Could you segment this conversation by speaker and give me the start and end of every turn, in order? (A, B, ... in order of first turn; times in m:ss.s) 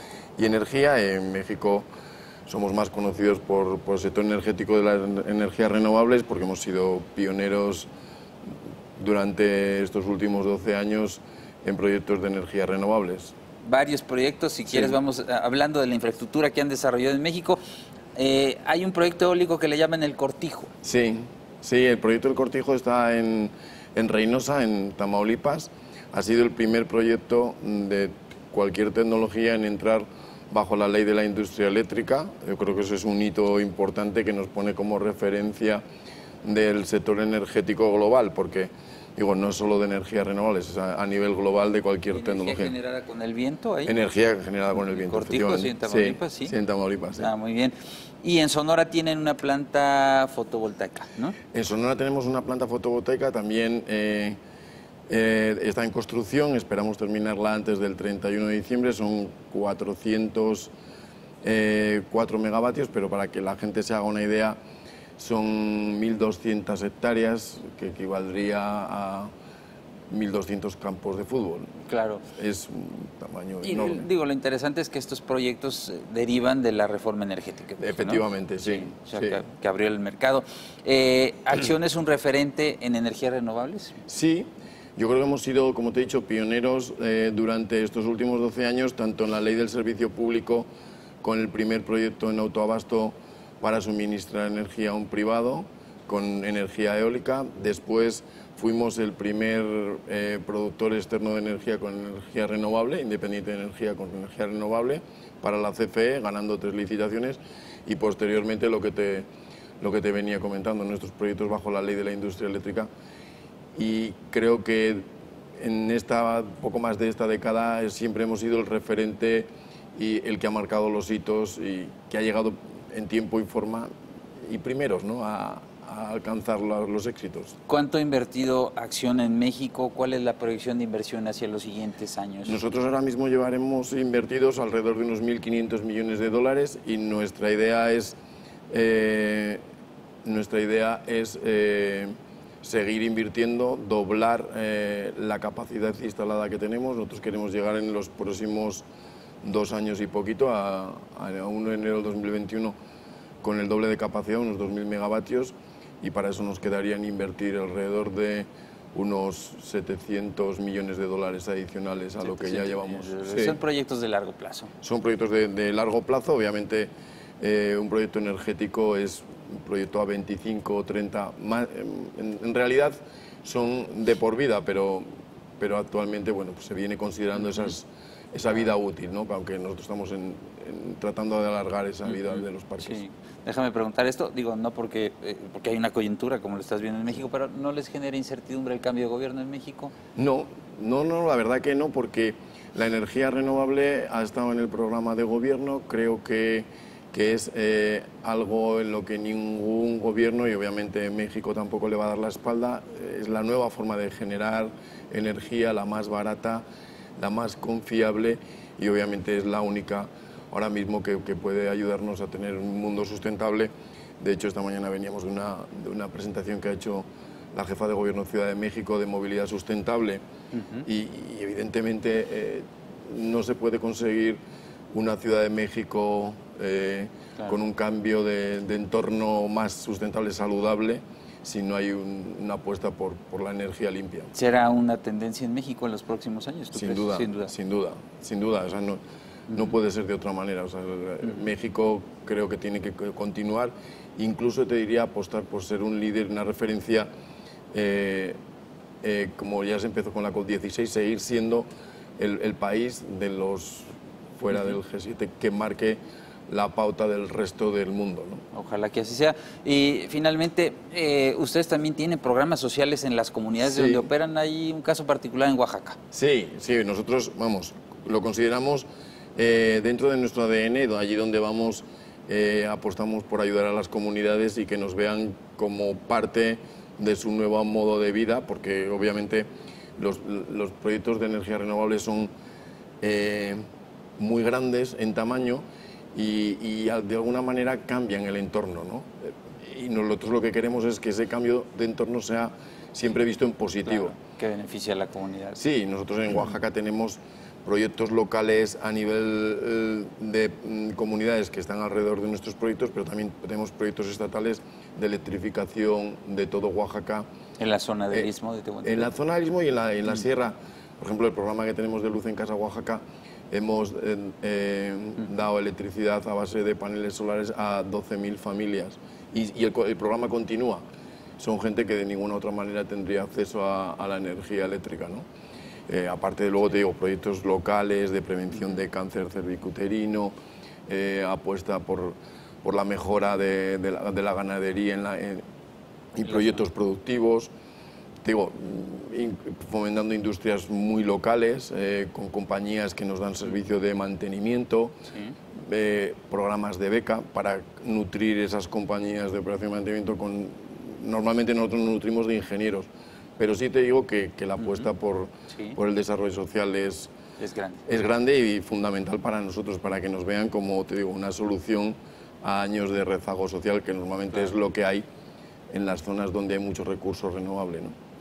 0:00.4-0:01.9 A
0:02.5-0:07.9 A
0:09.0-0:13.3 A
0:13.6-0:17.6 B
0:14.7-0:15.0 A
0:18.2-0:20.7 B
0:20.8-0:35.8 A
0:36.4-0:42.8 A
0:42.1-0:44.0 B
0:43.8-0:47.3 A
0:44.8-0:46.6 B
0:47.2-0:51.4 B
0:51.5-0:54.4 A
0:55.1-1:00.7 A
1:01.4-1:04.6 A
1:05.2-1:09.3 A
1:10.1-1:11.7 A
1:11.9-1:12.2 B
1:12.3-1:14.1 A
1:13.6-1:24.0 B
1:17.8-1:19.4 A
1:24.1-1:30.7 A
1:31.2-1:49.3 A
1:49.8-1:52.9 A
1:53.8-1:55.1 A
1:55.6-2:03.9 A
2:04.4-2:07.6 A
2:07.7-2:12.6 B
2:12.4-2:18.2 A
2:18.7-2:19.6 A
2:20.2-2:28.9 A
2:29.4-2:32.8 A
2:33.4-2:43.6 A
2:42.2-2:44.7 B
2:44.8-2:55.1 A
2:55.6-3:03.0 A
3:02.1-3:10.0 B
3:10.2-3:26.6 A
3:27.2-3:40.2 A
3:40.5-3:40.9 B
3:40.8-3:44.4 A
3:44.9-3:54.3 A
3:54.3-3:57.5 B
3:56.7-3:59.0 A
3:59.5-4:07.1 A
4:07.7-4:08.4 A
4:09.0-4:11.7 A
4:12.2-4:18.4 A
4:18.5-4:26.0 B
4:23.6-4:24.1 A
4:26.1-4:42.3 A
4:43.0-4:43.6 A
4:44.2-4:54.1 A
4:53.9-4:55.6 B
4:55.6-5:07.3 A
5:07.6-5:09.1 B
5:08.8-5:20.8 A
5:21.4-5:25.3 A
5:25.9-5:30.3 A
5:30.9-5:35.4 A
5:36.2-5:37.5 A
5:38.2-5:45.0 A
5:45.6-5:57.1 A
5:54.6-5:54.9 B
5:55.5-5:55.8 B
5:57.4-5:57.8 B
5:57.9-6:05.0 A
6:05.7-6:07.9 A